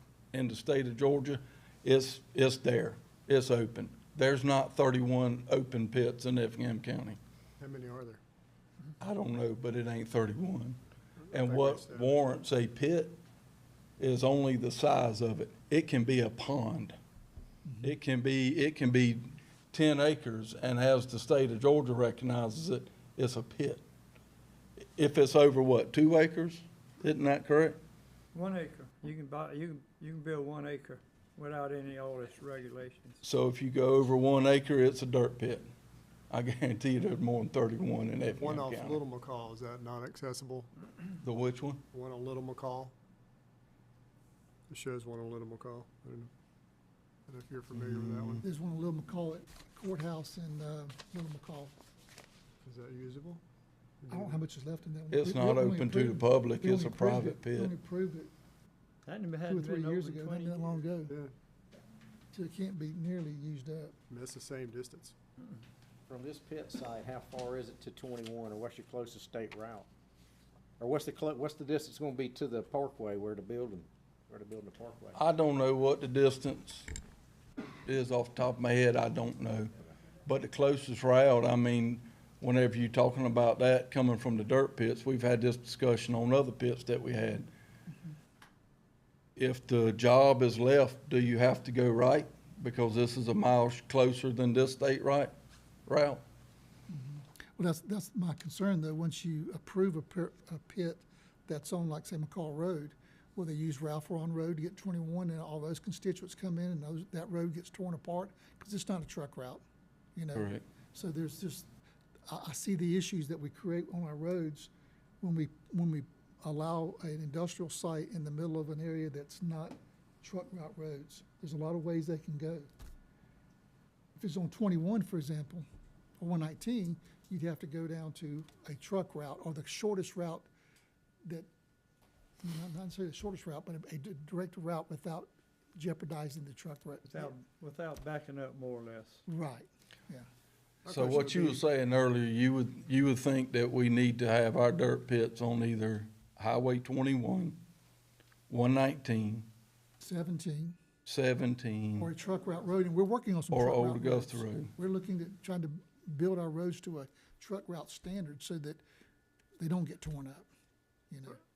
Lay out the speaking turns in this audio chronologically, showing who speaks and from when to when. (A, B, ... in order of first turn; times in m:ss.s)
0:00.3-0:07.2 A
0:07.6-0:08.2 B
0:09.0-0:10.8 A
0:11.3-0:12.2 B
0:11.3-0:13.2 A
0:14.0-0:17.0 A
0:17.7-0:17.9 C
0:17.8-0:23.8 A
0:25.0-0:27.8 A
0:28.3-0:33.2 D
0:33.2-0:35.7 A
0:36.3-0:39.0 A
0:38.4-0:40.7 B
0:41.2-0:41.8 A
0:41.9-0:42.9 B
0:44.7-0:46.3 B
0:47.3-0:48.4 B
0:47.7-0:48.4 A
0:48.4-0:51.8 C
0:52.6-0:53.4 B
0:54.0-0:54.4 B
0:54.1-0:58.3 C
0:55.1-0:57.7 A
0:59.1-1:00.8 D
0:59.4-1:01.2 C
1:01.1-1:01.3 B
1:02.3-1:04.0 C
1:04.1-1:05.2 B
1:06.1-1:09.9 E
1:10.8-1:15.2 E
1:15.1-1:16.9 A
1:17.8-1:19.7 A
1:20.2-1:27.5 A
1:29.4-1:35.3 A
1:35.9-1:36.2 A
1:36.9-1:49.6 C
1:50.2-1:51.7 C
1:50.3-1:50.6 A
1:52.3-2:02.7 C
2:04.2-2:05.6 C
2:06.2-2:10.5 C
2:12.4-2:17.3 C
2:17.1-2:19.2 D
2:19.3-2:20.3 C
2:20.8-2:21.6 B
2:20.9-2:27.6 A
2:28.5-2:29.5 A
2:30.0-2:30.8 C
2:31.0-2:32.1 A
2:32.0-2:38.8 C
2:33.5-2:34.7 A
2:39.6-2:40.5 C
2:41.1-2:41.4 C